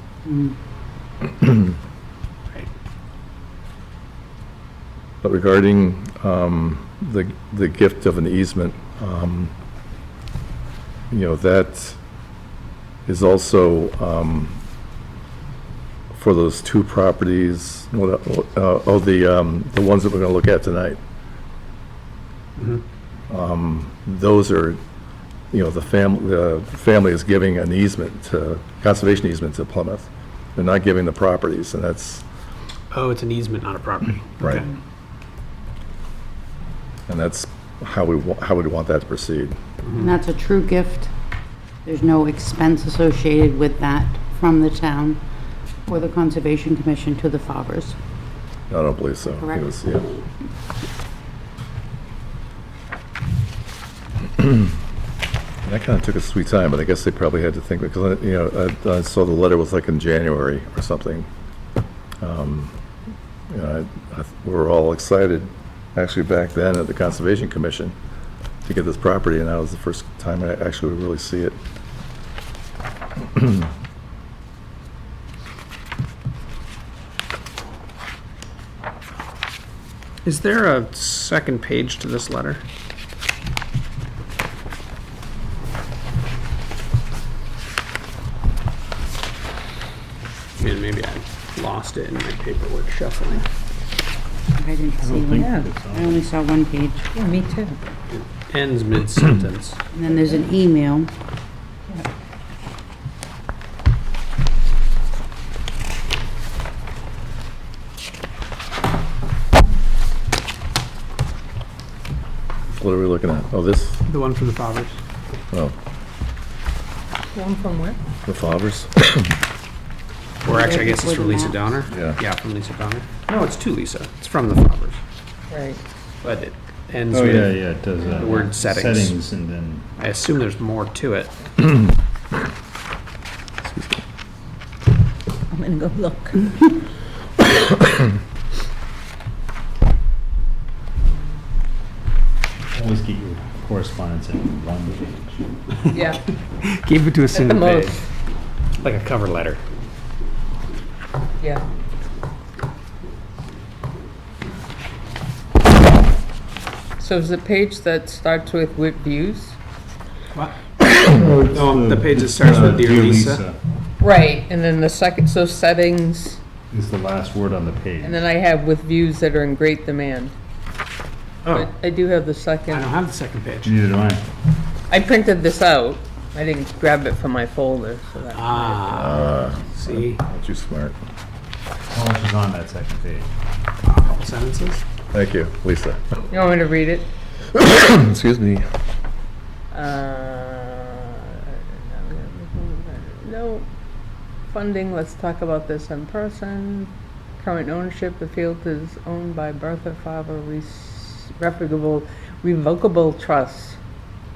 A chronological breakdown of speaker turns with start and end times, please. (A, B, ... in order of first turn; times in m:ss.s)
0:00.2-0:00.5 A
0:05.2-0:09.5 B
0:11.1-0:12.0 B
0:13.1-0:14.6 B
0:16.1-0:21.0 B
0:22.6-0:22.8 C
0:23.3-0:24.8 B
0:25.5-0:32.2 B
0:32.9-0:34.6 C
0:34.4-0:34.6 B
0:37.1-0:39.6 B
0:40.0-0:41.1 A
0:41.8-0:45.2 A
0:45.9-0:48.0 A
0:48.7-0:50.2 B
0:49.4-0:49.7 A
0:55.6-1:01.3 B
1:02.2-1:02.8 B
1:03.5-1:07.9 B
1:08.6-1:11.6 B
1:20.2-1:22.6 C
1:30.6-1:33.4 C
1:34.5-1:37.1 A
1:35.0-1:36.2 D
1:35.4-1:35.7 E
1:37.1-1:37.8 E
1:38.1-1:39.8 C
1:39.9-1:41.1 A
1:52.7-1:54.0 B
1:54.0-1:55.0 C
1:57.3-1:58.0 E
1:58.2-1:59.3 B
2:00.4-2:05.0 C
2:00.4-2:01.7 A
2:01.9-2:02.2 B
2:05.5-2:05.8 E
2:06.2-2:07.6 C
2:07.1-2:09.9 D
2:08.2-2:09.2 C
2:10.0-2:11.4 C
2:15.5-2:16.4 E
2:22.7-2:25.8 D
2:25.9-2:26.3 E
2:26.6-2:28.0 C
2:27.3-2:28.0 E
2:28.8-2:29.6 C
2:37.0-2:39.6 E
2:40.3-2:40.9 C
2:41.0-2:43.6 D
2:41.5-2:43.4 C
2:44.0-2:46.4 E
2:46.7-2:48.2 D
2:48.0-2:50.3 E
2:51.4-2:51.7 C
2:51.5-2:52.9 E
2:52.7-2:53.8 C
2:53.6-2:54.2 D
2:54.9-2:59.0 E
2:58.3-3:00.2 C
2:58.9-3:01.0 B
3:01.9-3:03.3 D
3:03.8-3:04.8 C
3:05.1-3:06.2 B
3:06.3-3:07.1 E
3:07.5-3:08.6 B
3:09.7-3:13.6 E
3:14.5-3:23.8 E